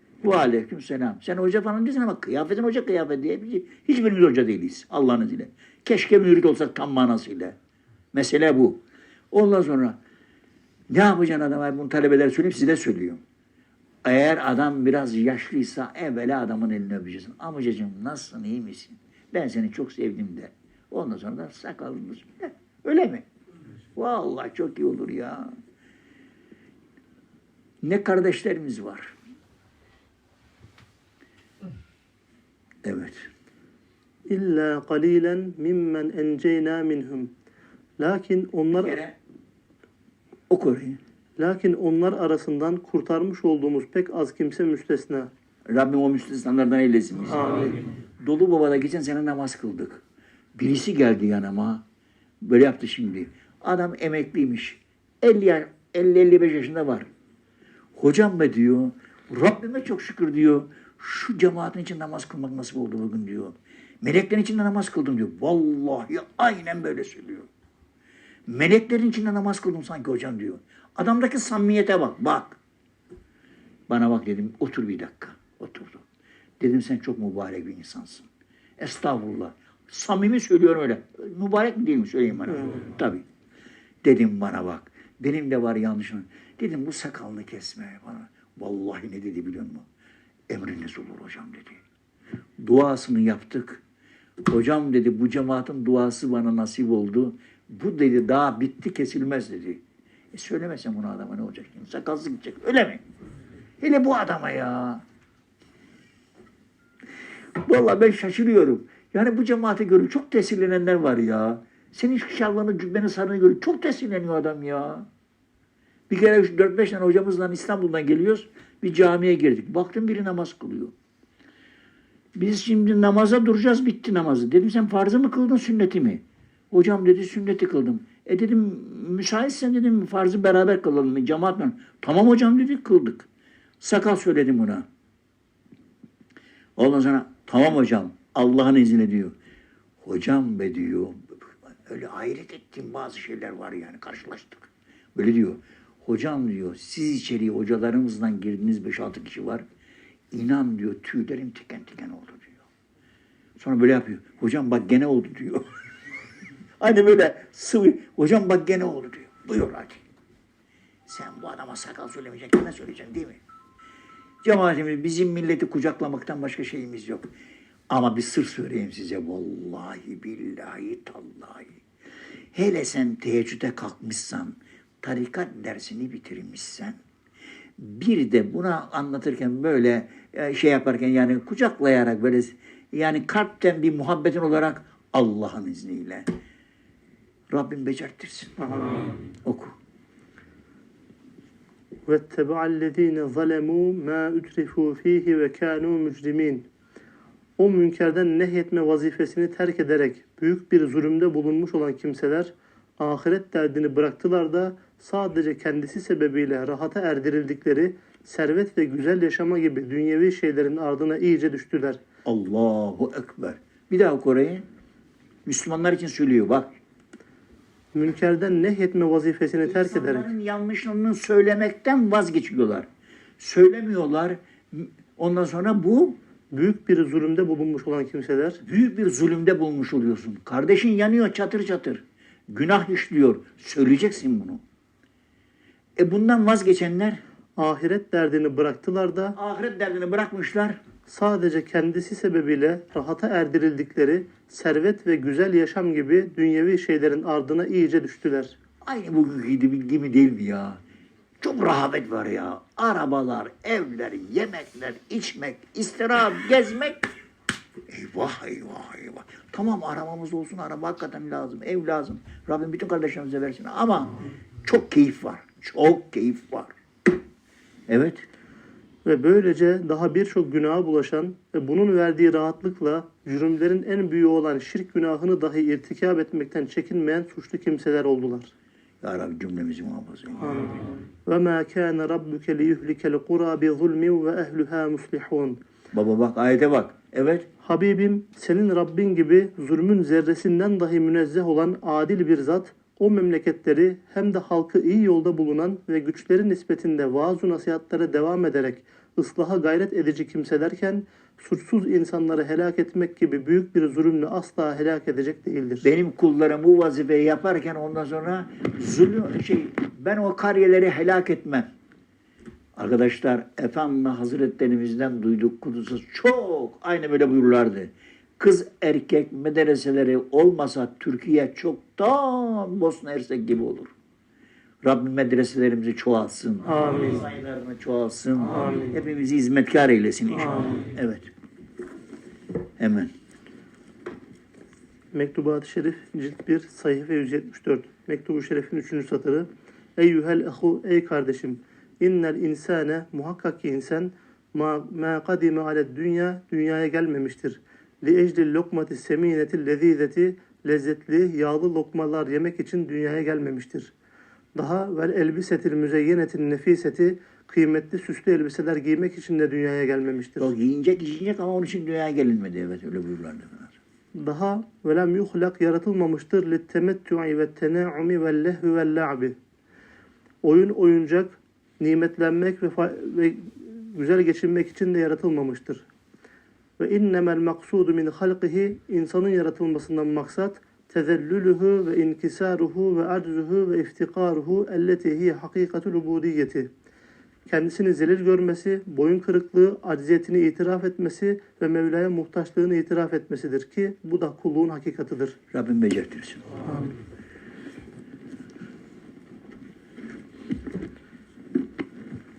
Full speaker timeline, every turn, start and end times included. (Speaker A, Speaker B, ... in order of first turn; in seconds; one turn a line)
Speaker A: 0.2-7.6
Speaker A: 8.1-8.8
Speaker A: 9.3-10.0
Speaker A: 10.9-13.2
Speaker A: 14.0-23.3
Speaker A: 24.0-25.5
Speaker A: 27.8-29.1
Speaker A: 32.8-33.3
Speaker B: 34.3-37.3
Speaker B: 38.0-39.0
Speaker A: 38.8-39.2
Speaker A: 40.5-41.0
Speaker B: 41.4-45.3
Speaker A: 45.7-50.0
Speaker B: 47.3-47.7
Speaker A: 50.6-51.8
Speaker A: 52.4-57.1
Speaker A: 58.0-67.5
Speaker A: 68.5-72.6
Speaker A: 73.9-76.0
Speaker A: 76.6-78.3
Speaker A: 78.8-83.3
Speaker A: 84.0-89.9
Speaker A: 90.5-91.8
Speaker A: 92.6-93.8
Speaker A: 94.5-99.8
Speaker A: 100.3-103.0
Speaker A: 103.8-105.0
Speaker A: 107.6-115.1
Speaker A: 116.1-120.9
Speaker A: 122.3-133.3
Speaker A: 133.8-134.9
Speaker A: 136.8-139.3
Speaker A: 140.0-149.7
Speaker A: 150.3-152.6
Speaker A: 153.6-155.7
Speaker A: 156.8-160.0
Speaker A: 161.1-163.4
Speaker A: 164.4-167.3
Speaker A: 167.9-171.8
Speaker A: 172.5-177.0
Speaker A: 177.8-186.3
Speaker A: 187.5-188.6
Speaker B: 188.6-189.0
Speaker A: 189.4-189.8
Speaker B: 192.1-196.7
Speaker B: 197.6-212.0
Speaker A: 212.3-214.7
Speaker A: 215.5-216.7
Speaker B: 217.9-220.3
Speaker A: 219.6-222.9
Speaker A: 223.4-226.2
Speaker B: 226.5-228.6
Speaker A: 228.6-234.6
Speaker A: 236.0-237.2
Speaker B: 237.6-239.4
Speaker A: 239.3-240.8
Speaker B: 241.1-248.6
Speaker A: 248.8-250.8
Speaker A: 251.4-257.1
Speaker A: 257.9-266.7
Speaker A: 267.9-268.2
Speaker B: 269.1-278.5
Speaker A: 279.0-280.6
Speaker B: 280.4-285.6
Speaker A: 285.9-287.5
Speaker B: 287.6-305.9
Speaker A: 305.8-311.7
Speaker A: 312.8-323.9
Speaker A: 324.8-331.3
Speaker B: 326.6-327.2
Speaker B: 328.4-329.0
Speaker B: 330.4-330.8
Speaker A: 332.8-333.1
Speaker B: 335.1-353.9
Speaker B: 354.6-360.5
Speaker A: 360.4-363.8
Speaker B: 364.1-369.4
Speaker B: 370.4-375.9
Speaker B: 376.8-386.7
Speaker B: 387.5-395.4
Speaker A: 395.5-396.6